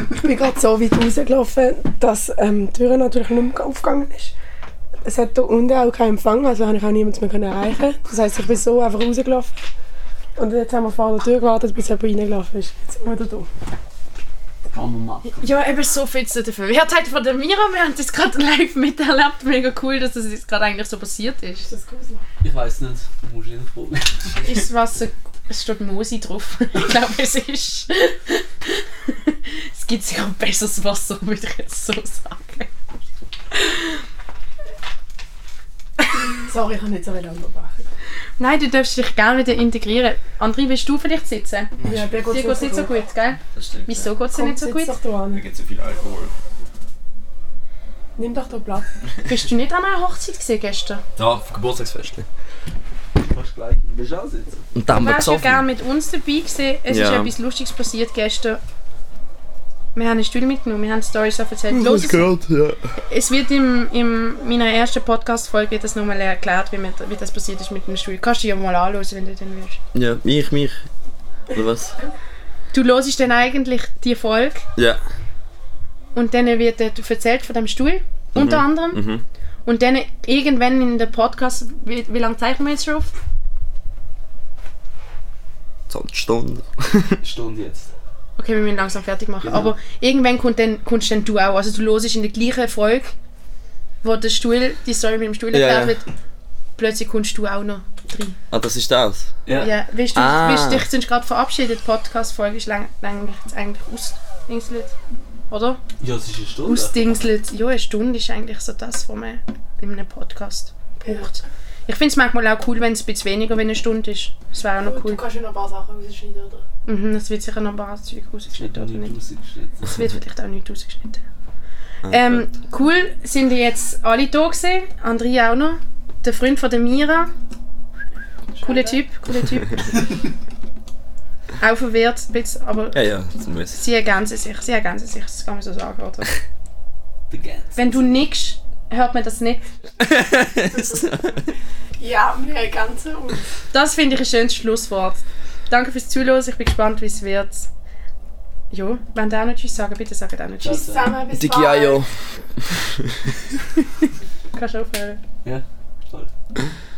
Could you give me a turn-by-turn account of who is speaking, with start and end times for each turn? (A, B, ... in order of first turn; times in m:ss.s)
0:00.2-0:04.4 A
0:05.0-0:09.7 A
0:10.4-0:13.5 A
0:14.7-0:15.5 B
0:15.4-0:21.7 C
0:21.7-0:22.2 A
0:22.4-0:24.5 B
0:24.4-0:32.7 C
0:33.5-0:34.0 C
0:36.1-0:37.9 A
0:38.4-0:41.7 C
0:41.8-0:42.3 D
0:41.8-0:42.9 A
0:42.3-0:45.0 C
0:43.5-0:44.1 D
0:44.3-0:45.4 A
0:45.3-0:46.3 D
0:48.2-0:48.9 A
0:49.3-0:51.0 C
0:51.2-0:52.3 D
0:53.2-0:54.7 B
0:54.8-0:55.7 D
0:54.9-0:58.6 C
0:56.9-0:57.3 D
1:00.0-1:02.3 C
1:01.7-1:02.9 D
1:01.8-1:02.2 A
1:03.1-1:09.8 C
1:09.9-1:10.9 D
1:11.5-1:12.0 D
1:12.7-1:14.7 C
1:14.8-1:15.0 D
1:16.1-1:19.0 C
1:18.4-1:19.2 D
1:19.6-1:23.1 C
1:25.9-1:27.2 D
1:27.2-1:27.9 B
1:28.4-1:33.1 C
1:29.4-1:29.7 B
1:34.0-1:36.1 C
1:35.5-1:36.0 D
1:36.8-1:38.4 C
1:38.5-1:39.3 D
1:39.5-1:39.7 B
1:39.6-1:45.0 C
1:40.1-1:40.9 D
1:45.5-1:45.8 C
1:46.0-1:47.1 B
1:46.6-1:55.2 C
1:51.0-1:51.3 A
1:54.8-1:56.7 A
1:56.9-1:59.2 C
1:58.5-2:00.0 B
1:59.8-2:01.2 C
2:02.0-2:02.5 D
2:02.1-2:07.3 C
2:08.6-2:09.0 A
2:08.6-2:10.0 C
2:11.6-2:13.0 C
2:12.9-2:13.8 D
2:13.7-2:16.4 C
2:17.3-2:18.0 B
2:17.8-2:19.6 C
2:20.0-2:21.4 D
2:20.7-2:21.4 A
2:22.0-2:23.5 A
2:23.7-2:27.7 C
2:28.7-2:31.0 C
2:30.6-2:31.1 B
2:30.9-2:32.0 A
2:31.3-2:33.3 D
2:34.5-2:35.2 C
2:35.4-2:36.3 B